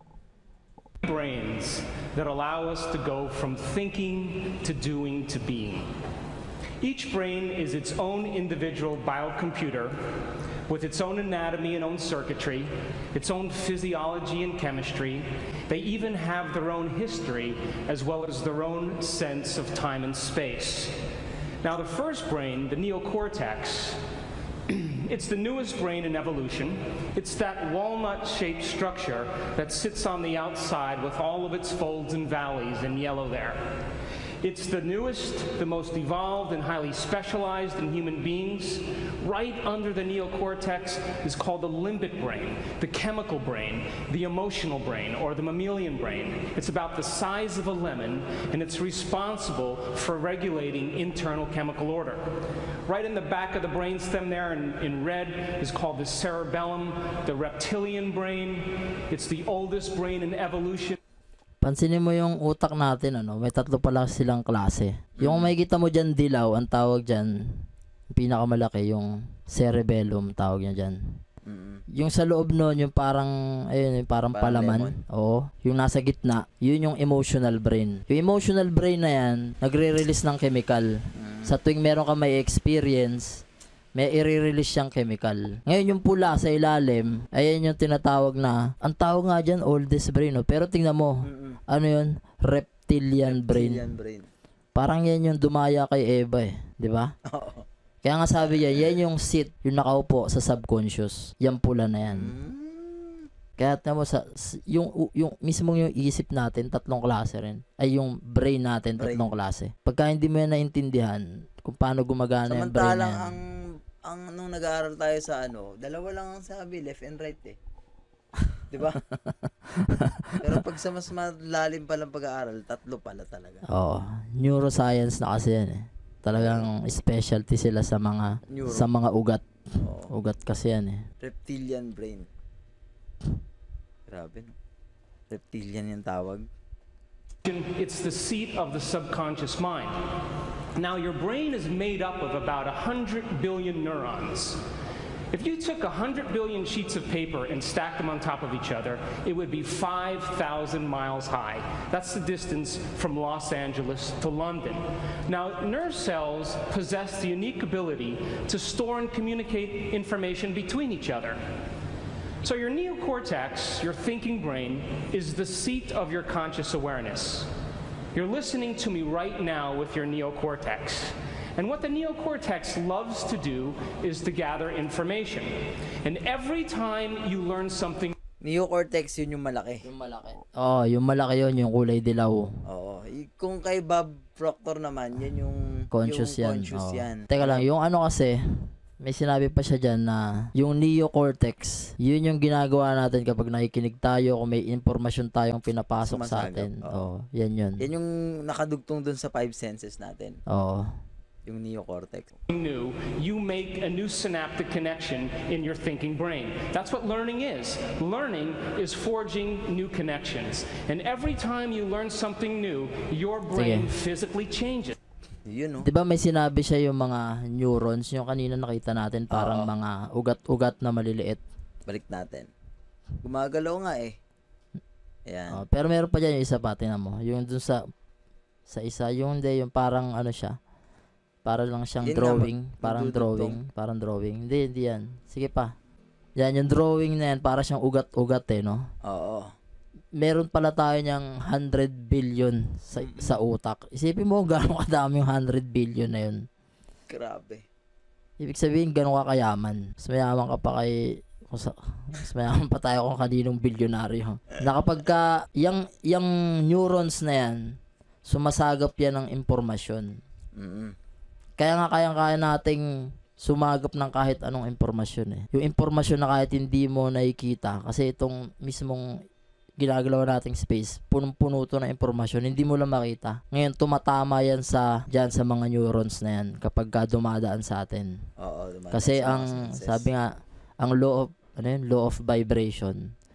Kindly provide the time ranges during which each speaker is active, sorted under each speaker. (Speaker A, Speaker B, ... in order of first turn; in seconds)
Speaker A: 1.0-5.9, 6.8-9.9, 10.7-20.9, 21.6-24.0, 24.7-33.6, 34.4-52.2, 52.9-61.0, 137.4-140.0, 140.8-144.6, 145.3-161.4, 162.4-167.5, 168.1-175.5, 176.0-178.1, 202.5-214.9
Speaker B: 61.6-71.0, 71.9-83.4, 84.0-93.8, 94.7-97.1, 98.0-102.3, 103.6-113.3, 119.3-120.6, 123.7-129.4, 130.1-131.0, 179.8-182.5, 185.9-197.9, 200.5-200.9, 213.5-213.9, 215.8-221.4, 225.5-227.8, 228.7-230.6, 231.4-235.7, 236.4-238.9, 240.2-246.4, 248.4-257.7, 258.2-260.2, 261.6-269.1, 269.8-278.2, 278.9-280.3, 280.8-283.1
Speaker C: 65.2-65.5, 71.5-71.8, 74.3-75.0, 81.2-81.5, 91.2-91.6, 93.2-94.3, 97.3-97.6, 102.1-103.3, 109.0-109.3, 112.5-117.6, 118.7-119.0, 120.4-123.6, 126.4-126.7, 128.5-128.9, 129.8-130.1, 131.2-132.3, 134.1-134.5, 135.3-136.5, 178.4-179.8, 182.7-187.6, 196.0-197.1, 197.8-200.4, 201.4-202.3, 215.5-215.9, 219.3-219.7, 221.9-222.5, 223.2-224.2, 225.3-225.6, 232.0-233.6, 239.0-239.5, 243.0-243.4, 247.1-247.6, 260.6-260.9, 278.4-280.1